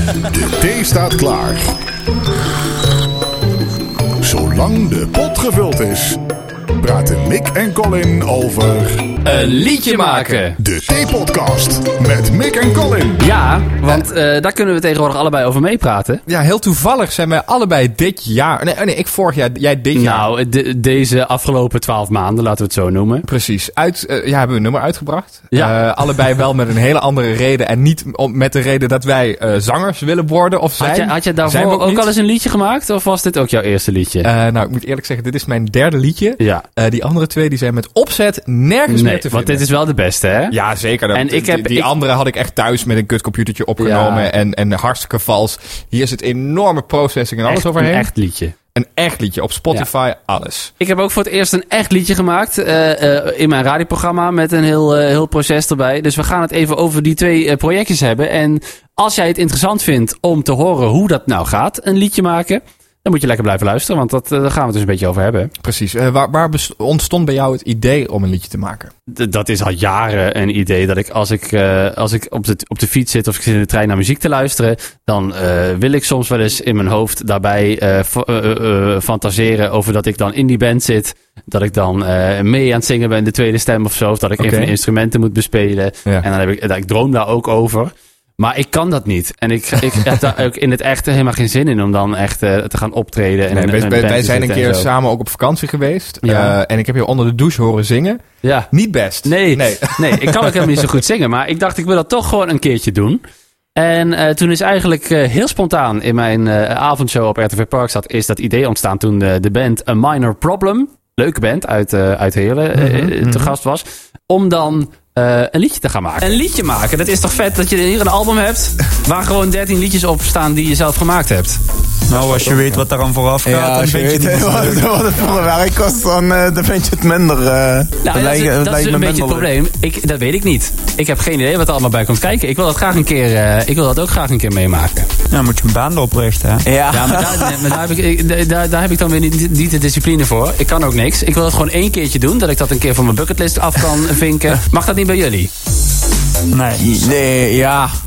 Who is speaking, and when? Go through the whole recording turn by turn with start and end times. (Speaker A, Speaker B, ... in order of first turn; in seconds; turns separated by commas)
Speaker A: 0.4-1.6, Speaker A: 4.2-6.2, Speaker A: 6.8-9.0, Speaker B: 9.2-10.6, Speaker C: 9.3-10.5, Speaker A: 10.6-13.2, Speaker B: 13.2-16.2, Speaker C: 16.3-20.3, Speaker B: 19.9-23.3, Speaker C: 23.3-32.1, Speaker B: 30.8-34.3, Speaker C: 34.2-39.6, Speaker B: 36.4-36.6, Speaker B: 38.9-40.5, Speaker C: 40.5-48.1, Speaker B: 41.1-41.9, Speaker B: 43.8-44.3, Speaker B: 47.5-48.5, Speaker C: 48.7-50.7, Speaker B: 50.8-65.5, Speaker C: 65.6-68.9, Speaker B: 69.1-94.9, Speaker C: 84.4-84.7, Speaker C: 93.5-100.8, Speaker B: 96.2-96.5, Speaker B: 98.4-98.7, Speaker B: 99.2-103.2, Speaker B: 103.8-121.6, Speaker C: 112.8-113.5, Speaker D: 122.1-124.9, Speaker E: 123.4-129.5, Speaker B: 128.0-135.1, Speaker D: 135.3-136.7, Speaker E: 136.7-137.5, Speaker B: 136.9-145.5, Speaker D: 146.5-147.0, Speaker E: 146.8-147.9